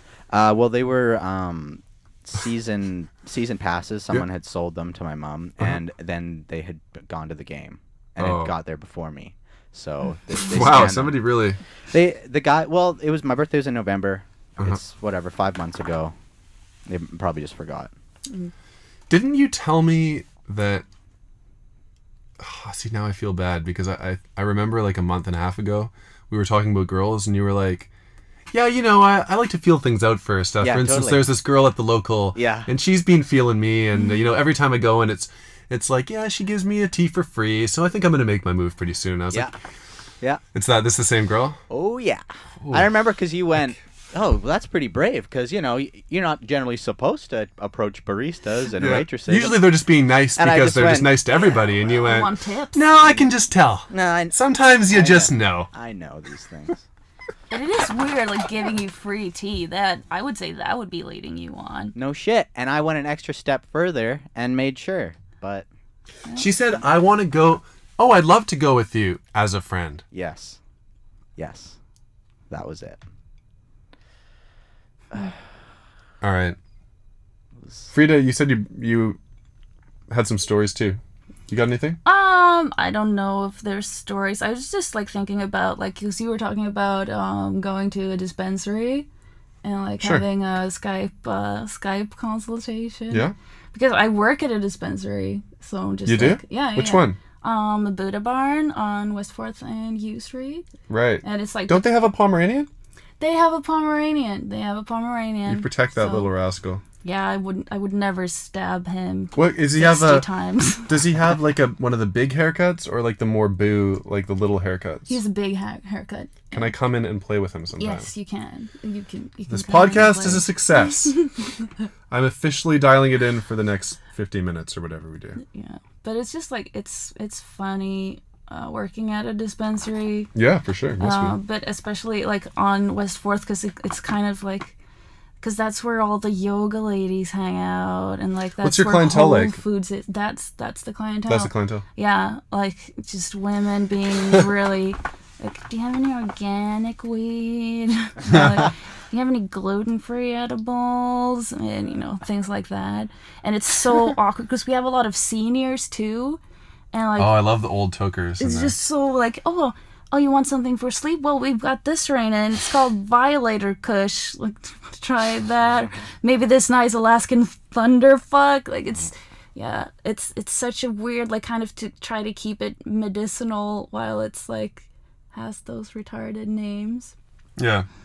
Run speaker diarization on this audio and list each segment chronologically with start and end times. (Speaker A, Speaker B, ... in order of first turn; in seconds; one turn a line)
Speaker A: 0.3-11.2
Speaker B: 8.2-8.5
Speaker B: 10.4-11.6
Speaker A: 11.9-16.1
Speaker A: 16.9-17.9
Speaker B: 19.1-20.9
Speaker B: 22.4-27.9
Speaker B: 28.5-39.5
Speaker A: 30.6-31.3
Speaker A: 32.3-32.7
Speaker B: 40.5-41.6
Speaker A: 41.7-49.7
Speaker B: 42.6-42.9
Speaker B: 48.8-55.7
Speaker A: 50.4-51.9
Speaker C: 52.0-52.8
Speaker A: 53.9-54.4
Speaker A: 54.9-56.9
Speaker C: 57.5-61.9
Speaker A: 62.0-65.7
Speaker B: 66.4-70.0
Speaker A: 70.1-70.6
Speaker A: 71.4-71.8
Speaker A: 72.5-73.0
Speaker B: 76.2-76.6
Speaker A: 77.6-77.9
Speaker B: 77.9-79.2
Speaker B: 80.1-82.0
Speaker C: 82.0-89.1
Speaker C: 89.6-100.7
Speaker B: 93.1-93.3
Speaker B: 96.1-97.2
Speaker B: 100.9-102.7
Speaker C: 101.2-101.8
Speaker C: 103.2-106.3
Speaker B: 105.5-106.8
Speaker C: 107.0-111.0
Speaker B: 109.4-110.3
Speaker B: 110.9-115.1
Speaker C: 115.1-116.7
Speaker B: 116.5-118.1
Speaker C: 117.8-120.5
Speaker B: 119.5-121.2
Speaker B: 122.1-125.4
Speaker C: 125.4-130.3
Speaker B: 130.3-131.3
Speaker C: 131.0-134.8
Speaker C: 135.4-156.4
Speaker B: 138.6-139.6
Speaker B: 141.3-141.8
Speaker B: 148.3-148.7
Speaker C: 156.9-157.4
Speaker B: 157.2-158.8
Speaker C: 158.4-177.1
Speaker B: 177.6-177.9